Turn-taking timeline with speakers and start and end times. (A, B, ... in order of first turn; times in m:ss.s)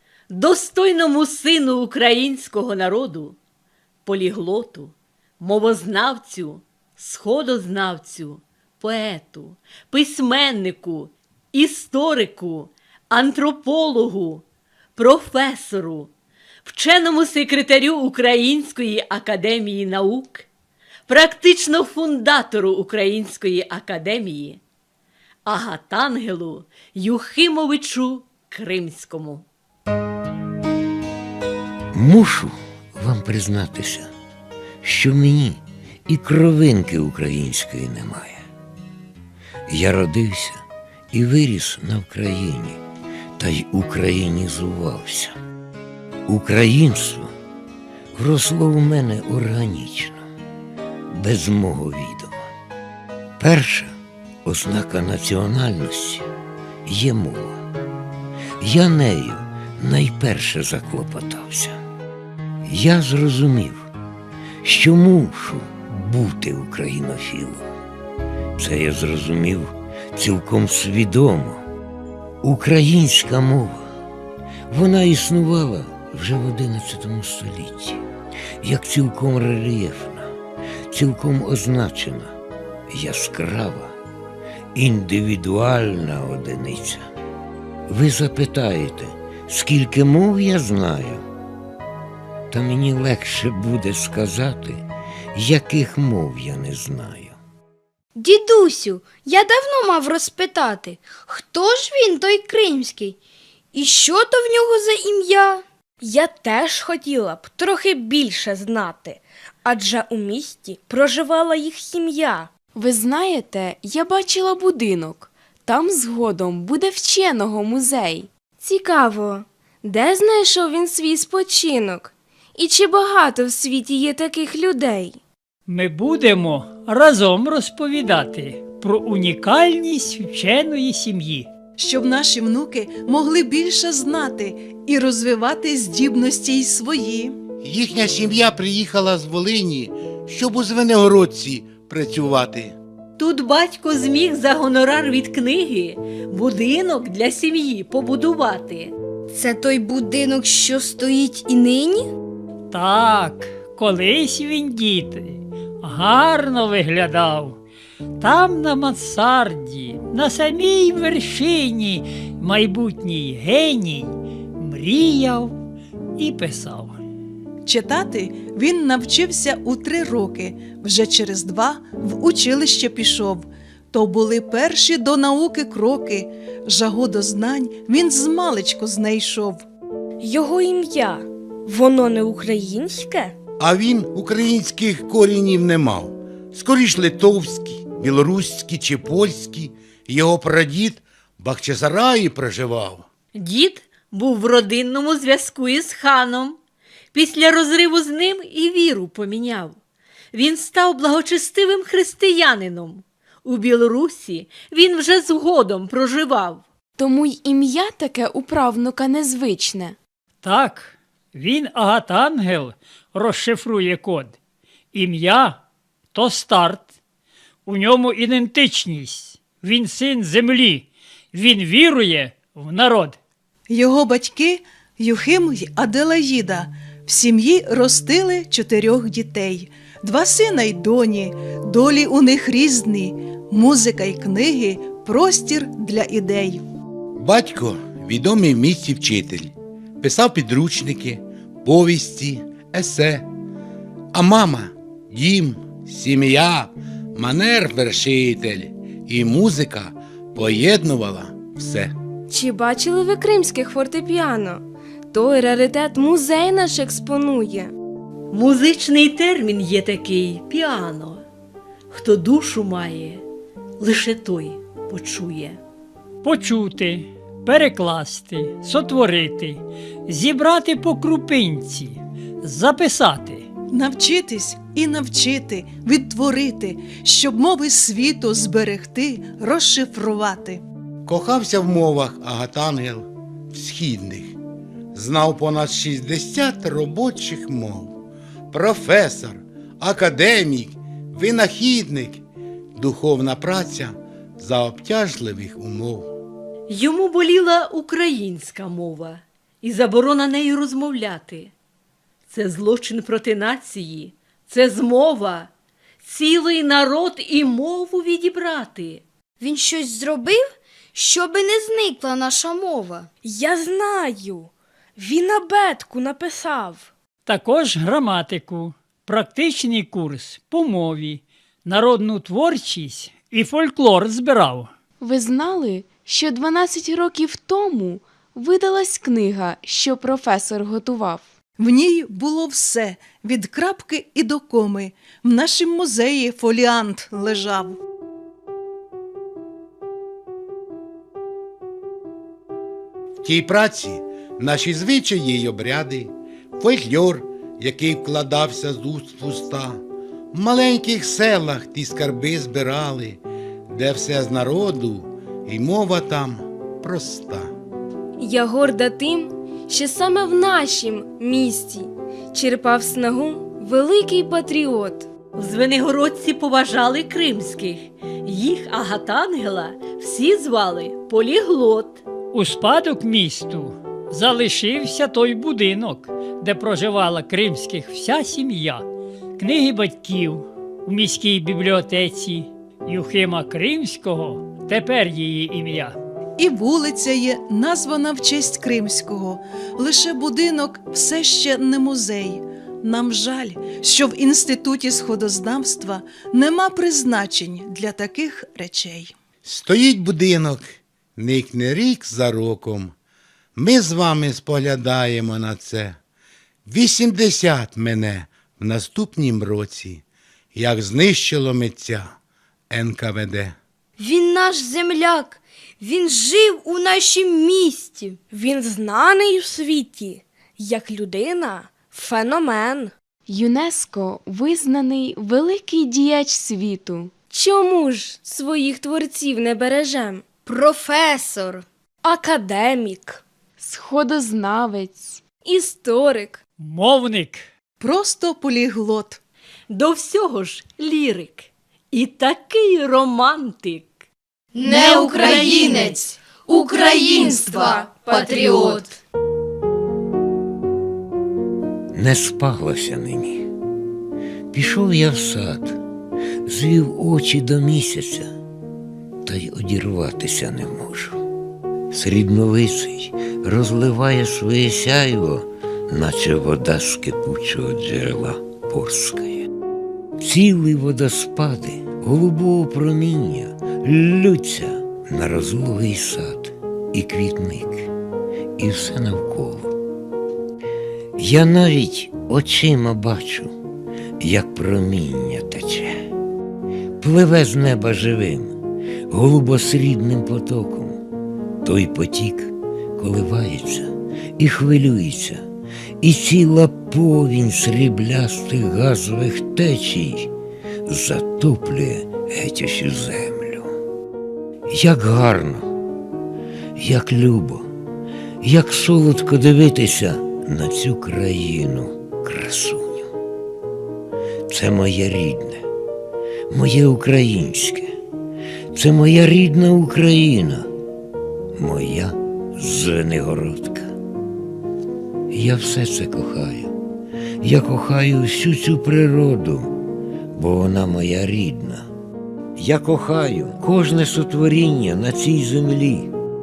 0:00.3-0:03.4 A
0:04.0-0:14.4 A
0:15.0-0:16.1 A
0:16.6-0:20.5 A
0:21.1-0:24.6 A
0:25.4-0:29.4 A
0:31.9-0:34.1 B
0:34.8-0:38.4 B
0:39.7-0:42.8 B
0:43.4-0:45.4 B
0:46.3-0:47.3 B
0:48.1-0:50.2 B
0:51.1-0:52.5 B
0:53.4-0:56.3 B
0:56.8-0:57.6 B
0:58.6-1:01.8 B
1:02.6-1:03.9 B
1:04.6-1:07.7 B
1:08.6-1:11.6 B
1:12.4-1:13.9 B
1:14.7-1:18.0 B
1:18.6-1:20.3 B
1:20.9-1:22.4 B
1:22.9-1:24.0 B
1:24.7-1:27.0 B
1:27.9-1:31.2 B
1:32.5-1:37.4 B
1:38.2-1:43.2 C
1:43.7-1:45.6 C
1:46.0-1:52.5 D
1:52.8-1:58.3 E
1:58.6-2:05.2 D
2:05.7-2:11.5 F
2:11.8-2:17.3 G
2:17.6-2:22.8 H
2:23.2-2:28.9 A
2:29.3-2:32.1 C
2:32.7-2:37.6 F
2:38.2-2:45.5 F
2:46.2-2:47.0 F
2:47.6-2:59.6 G
3:00.2-3:03.3 D
3:03.6-3:13.0 H
3:13.3-3:16.6 A
3:17.1-3:19.8 A
3:20.3-3:26.6 A
3:27.0-3:30.0 E
3:30.4-3:34.4 F
3:34.9-3:35.6 F
3:36.1-3:36.8 F
3:37.6-3:43.2 F
3:43.7-3:56.6 G
3:57.2-4:03.3 H
4:04.1-4:11.9 H
4:12.3-4:17.7 D
4:18.3-4:21.2 A
4:21.9-4:23.2 A
4:23.8-4:25.6 A
4:26.2-4:33.4 F
4:33.7-4:40.6 G
4:41.0-4:44.4 H
4:44.9-4:48.0 H
4:48.5-4:52.2 H
4:52.8-4:56.1 H
4:56.7-5:01.5 A
5:02.3-5:05.5 A
5:06.0-5:09.0 A
5:09.4-5:13.1 C
5:13.2-5:16.9 D
5:17.2-5:24.7 F
5:25.0-5:31.2 E
5:31.6-5:37.8 G
5:43.2-5:49.8 H
5:50.3-5:57.5 H
5:58.2-6:05.1 D
6:05.4-6:12.0 A
6:12.3-6:18.9 F
6:19.4-6:26.0 F
6:26.4-6:39.1 G
6:39.4-6:40.6 H
6:41.2-6:42.9 H
6:43.6-6:46.0 H
6:46.6-6:50.0 H
6:50.5-6:52.1 H
6:52.7-6:53.6 H
6:54.0-6:58.2 C
6:58.3-7:02.9 D
7:03.3-7:07.1 E
7:07.3-7:10.2 D
7:10.4-7:11.6 C
7:12.0-7:13.2 D
7:13.6-7:15.2 E
7:15.4-7:16.4 D
7:16.6-7:17.4 F
7:17.8-7:19.2 G
7:19.7-7:24.0 A
7:24.5-7:28.8 C
7:24.7-7:25.7 A
7:25.6-7:25.9 D
7:26.5-7:28.9 D
7:31.9-7:33.5 B
7:34.5-7:35.8 B
7:36.4-7:38.3 B
7:39.2-7:41.2 B
7:41.9-7:49.5 B
7:50.2-7:57.9 B
7:58.6-7:59.8 B
8:01.2-8:03.6 B
8:04.2-8:06.0 B
8:07.0-8:08.6 B
8:09.1-8:11.0 B
8:11.6-8:15.4 B
8:16.0-8:20.3 B
8:20.9-8:23.7 B
8:24.7-8:25.7 B
8:26.8-8:27.7 B
8:28.4-8:33.1 B
8:34.5-8:35.6 B
8:36.5-8:37.9 B
8:38.7-8:40.7 B
8:41.6-8:43.9 B
8:45.3-8:46.7 B
8:47.4-8:49.8 B
8:50.3-8:51.9 B
8:52.6-8:56.1 B